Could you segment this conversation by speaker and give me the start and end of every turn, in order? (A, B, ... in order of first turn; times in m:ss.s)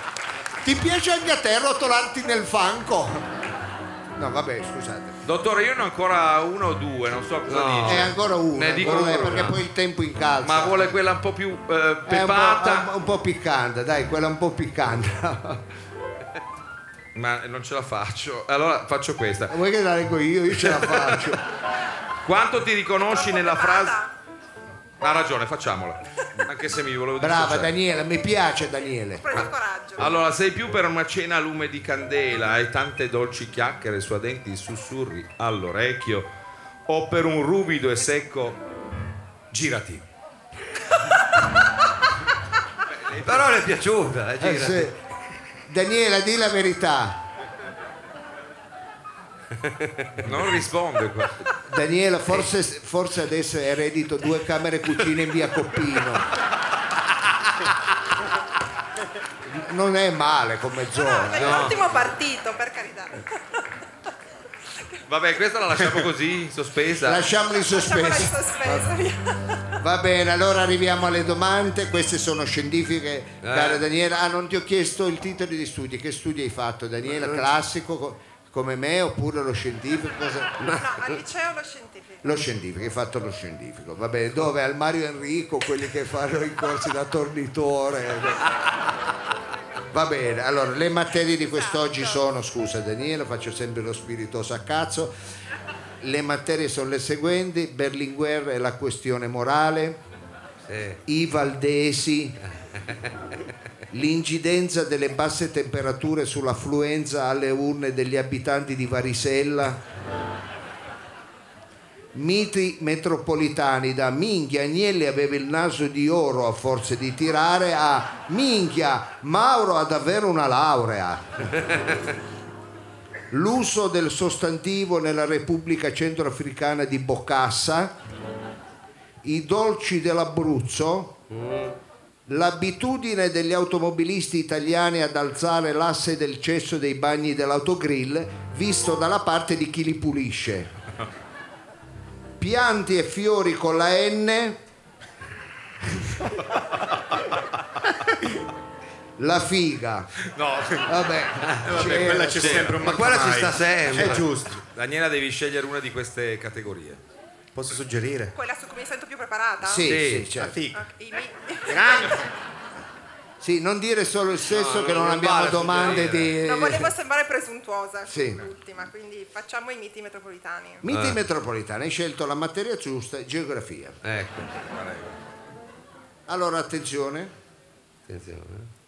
0:00.6-0:03.3 A
0:04.2-0:05.2 A
0:05.2-0:09.6 B
0:07.5-0:08.1 C
0:07.9-0:11.0 A
0:10.4-0:12.9 B
0:12.1-0:15.6 A
0:17.2-0:19.6 B
0:19.5-0:21.4 A
0:20.5-0:21.4 B
0:22.2-0:24.0 B
0:23.0-0:24.1 D
0:25.0-0:27.7 B
0:27.2-0:29.5 A
0:28.8-0:30.2 D
0:29.3-0:36.3 B
0:36.9-0:38.6 B
0:39.5-0:40.0 B
0:42.9-0:43.7 B
0:43.2-0:44.9 C
0:44.4-0:45.0 A
0:45.7-0:47.2 A
0:49.6-0:50.2 C
0:50.2-0:51.4 B
0:51.7-0:56.3 A
0:59.5-1:01.8 A
1:00.9-1:03.2 D
1:01.4-1:01.7 C
1:05.1-1:07.3 B
1:07.0-1:08.9 A
1:07.5-1:09.6 D
1:09.8-1:20.6 A
1:13.4-1:13.8 C
1:17.1-1:17.4 C
1:20.6-1:21.2 C
1:20.8-1:22.4 D
1:22.2-1:28.4 A
1:29.9-1:35.1 A
1:31.4-1:32.2 D
1:36.0-1:40.0 A
1:40.7-1:41.0 C
1:41.1-1:42.4 A
1:42.7-1:43.1 C
1:43.9-1:49.8 A
1:52.1-2:01.5 A
2:03.3-2:07.9 A
2:09.2-2:11.1 A
2:11.3-2:11.8 C
2:12.3-2:20.7 A
2:22.4-2:24.6 A
2:29.2-2:30.1 A
2:30.3-2:30.9 B
2:30.9-2:32.8 A
2:31.6-2:34.6 E
2:31.7-2:33.0 B
2:32.8-2:34.3 C
2:34.0-2:37.0 B
2:37.6-2:38.3 E
2:38.3-2:40.0 D
2:39.6-2:40.6 A
2:39.8-2:40.3 C
2:40.1-2:40.9 E
2:40.7-2:42.3 D
2:41.7-2:42.3 E
2:43.4-2:46.9 A
2:44.5-2:46.3 C
2:46.4-2:50.8 D
2:48.1-2:48.4 A
2:50.8-2:54.0 A
2:50.9-2:51.2 C
2:54.0-2:54.5 C
2:54.7-2:55.1 B
2:56.3-2:57.3 A
2:58.1-2:58.7 C